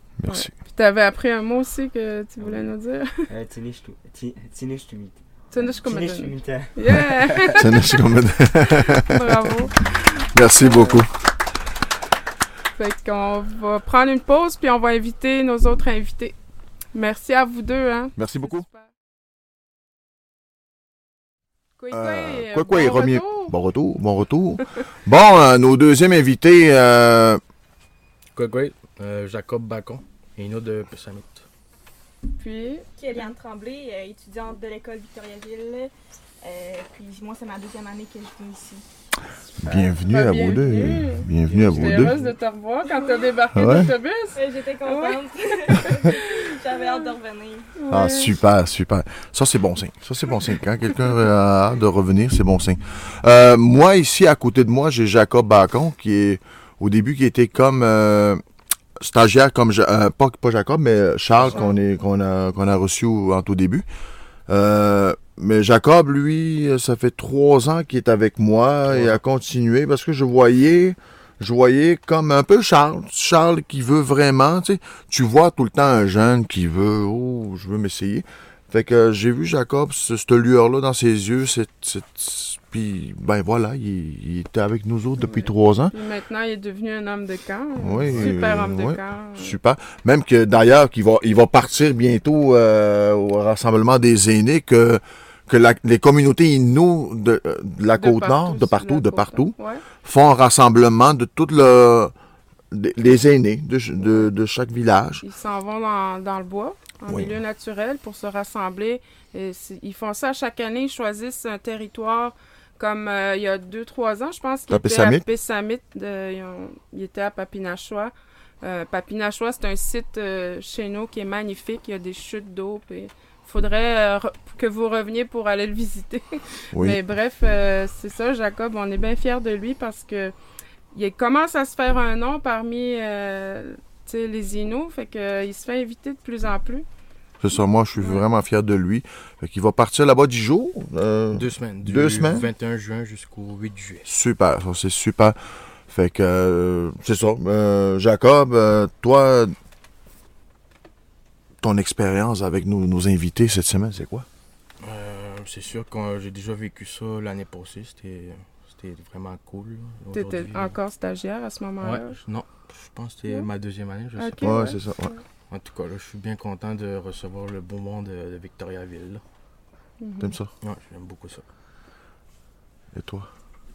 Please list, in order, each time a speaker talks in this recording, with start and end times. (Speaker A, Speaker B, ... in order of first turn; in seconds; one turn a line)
Speaker A: 0.2-0.5
Speaker B: 0.3-3.2
Speaker C: 2.4-2.7
Speaker C: 3.3-7.1
Speaker B: 5.5-7.7
Speaker A: 7.5-9.4
Speaker B: 9.0-10.9
Speaker A: 10.3-11.1
Speaker C: 10.7-11.0
Speaker B: 12.8-16.4
Speaker B: 16.9-18.9
Speaker A: 18.2-18.7
Speaker B: 21.8-23.5
Speaker A: 21.9-27.4
Speaker D: 28.3-31.4
Speaker B: 32.4-33.3
Speaker E: 33.0-38.9
Speaker B: 39.5-47.0
Speaker A: 39.6-42.1
Speaker D: 41.4-42.4
Speaker A: 43.5-43.9
Speaker E: 44.4-47.7
Speaker B: 47.8-48.4
Speaker A: 47.9-58.4
Speaker A: 59.0-63.9
Speaker D: 61.4-61.7
Speaker A: 64.5-85.9
Speaker D: 68.9-69.2
Speaker B: 85.2-89.6
Speaker A: 87.8-102.1
Speaker B: 98.0-99.8
Speaker A: 102.7-105.2
Speaker B: 105.2-130.3
Speaker A: 107.1-107.3
Speaker A: 114.7-115.2
Speaker A: 126.7-127.0
Speaker B: 130.9-136.9
Speaker A: 137.4-142.5
Speaker B: 138.0-138.2
Speaker D: 141.3-144.1
Speaker A: 144.1-145.4
Speaker A: 145.9-149.5
Speaker A: 151.6-154.3
Speaker D: 154.8-160.8
Speaker B: 160.1-162.2
Speaker D: 161.8-164.6
Speaker B: 164.2-164.8
Speaker A: 164.4-165.1
Speaker D: 165.5-169.2
Speaker B: 170.0-170.3
Speaker A: 170.2-170.5
Speaker D: 170.6-171.4
Speaker A: 172.9-173.3